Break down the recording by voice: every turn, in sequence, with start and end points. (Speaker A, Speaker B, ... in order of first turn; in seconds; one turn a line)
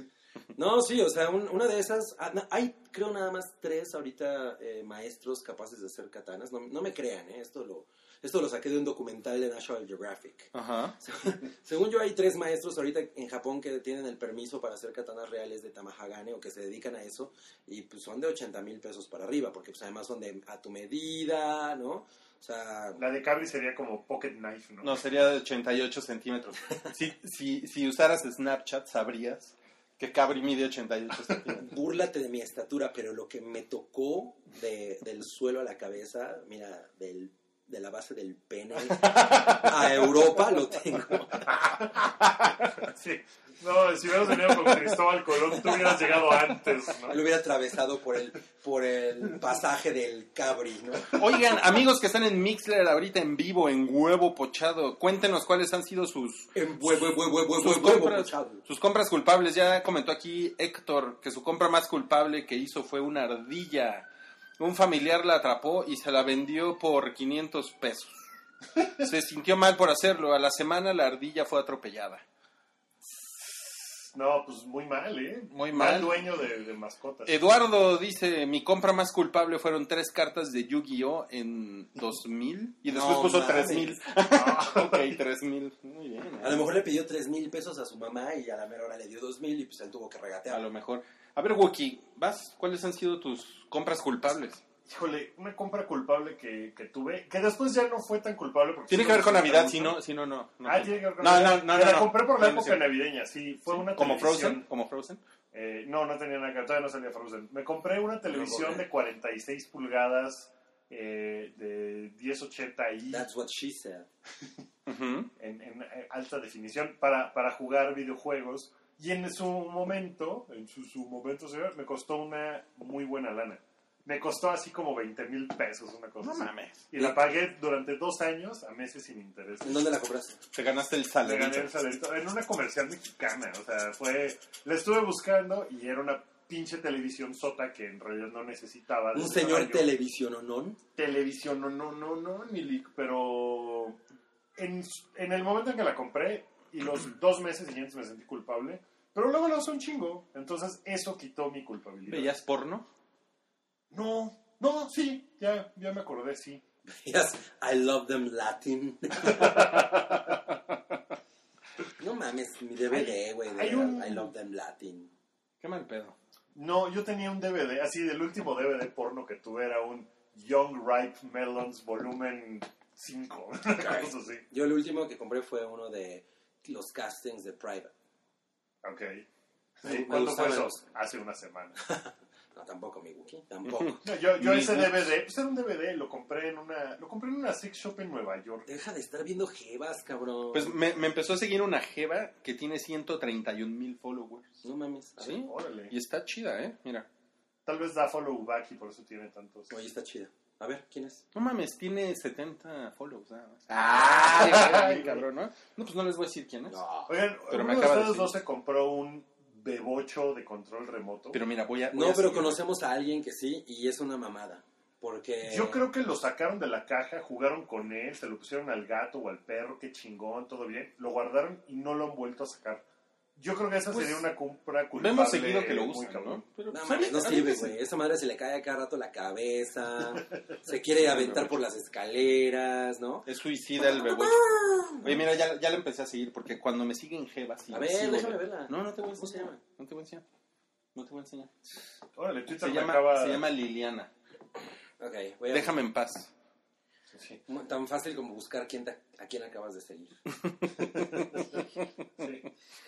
Speaker A: 0.5-23.0
Speaker B: 10.5-10.9
Speaker C: 23.0-24.9
Speaker B: 24.8-31.7
Speaker A: 31.5-41.5
Speaker C: 41.5-42.0
Speaker C: 42.8-47.2
Speaker A: 47.1-51.2
Speaker B: 51.1-56.5
Speaker A: 56.5-58.6
Speaker B: 57.6-64.1
Speaker B: 64.6-68.2
Speaker B: 69.0-72.2
Speaker C: 73.1-77.4
Speaker B: 75.5-76.2
Speaker B: 77.2-86.7
Speaker A: 82.9-84.0
Speaker C: 84.3-85.2
Speaker A: 86.4-90.6
Speaker B: 90.5-94.6
Speaker C: 94.8-100.0
Speaker B: 98.9-102.8
Speaker C: 100.6-104.6
Speaker B: 103.7-105.2
Speaker C: 105.5-113.2
Speaker A: 108.3-108.9
Speaker A: 113.1-114.1
Speaker B: 114.9-115.3
Speaker C: 115.4-129.8
Speaker B: 126.2-127.1
Speaker A: 129.6-130.4
Speaker B: 130.5-131.7
Speaker C: 131.2-139.9
Speaker A: 139.1-140.8
Speaker C: 140.9-144.0
Speaker C: 144.6-152.3
Speaker B: 152.1-152.8
Speaker C: 153.9-156.6
Speaker A: 156.9-159.9
Speaker C: 159.2-160.3
Speaker A: 162.0-165.1
Speaker C: 162.9-164.3
Speaker B: 165.6-166.2
Speaker C: 166.5-174.4
Speaker A: 173.7-177.9
Speaker C: 178.8-179.2
Speaker C: 179.8-181.8
Speaker A: 179.8-180.8
Speaker A: 181.9-184.0
Speaker B: 183.6-185.1
Speaker C: 184.0-188.6
Speaker A: 188.7-190.8
Speaker B: 190.5-194.6
Speaker A: 194.6-195.4
Speaker B: 195.2-197.1
Speaker C: 195.3-195.9
Speaker C: 197.7-199.7
Speaker A: 199.7-201.2
Speaker B: 201.3-206.8
Speaker A: 203.9-204.8
Speaker C: 204.2-205.2
Speaker A: 206.7-207.1
Speaker C: 207.1-211.4
Speaker B: 207.5-208.3
Speaker B: 211.3-212.6
Speaker A: 211.9-215.8
Speaker C: 215.4-222.8
Speaker C: 223.3-226.4
Speaker B: 223.9-224.2
Speaker B: 224.9-227.8
Speaker A: 226.7-233.3
Speaker B: 231.0-231.6
Speaker B: 233.2-234.4
Speaker A: 233.8-235.2
Speaker B: 235.0-240.2
Speaker A: 237.7-239.6
Speaker B: 240.9-241.5
Speaker C: 242.2-243.4
Speaker B: 242.5-244.1
Speaker A: 245.0-245.7
Speaker B: 245.5-246.3
Speaker C: 247.1-247.4
Speaker A: 247.5-250.1
Speaker B: 250.5-251.2
Speaker C: 250.9-251.6
Speaker C: 252.2-252.4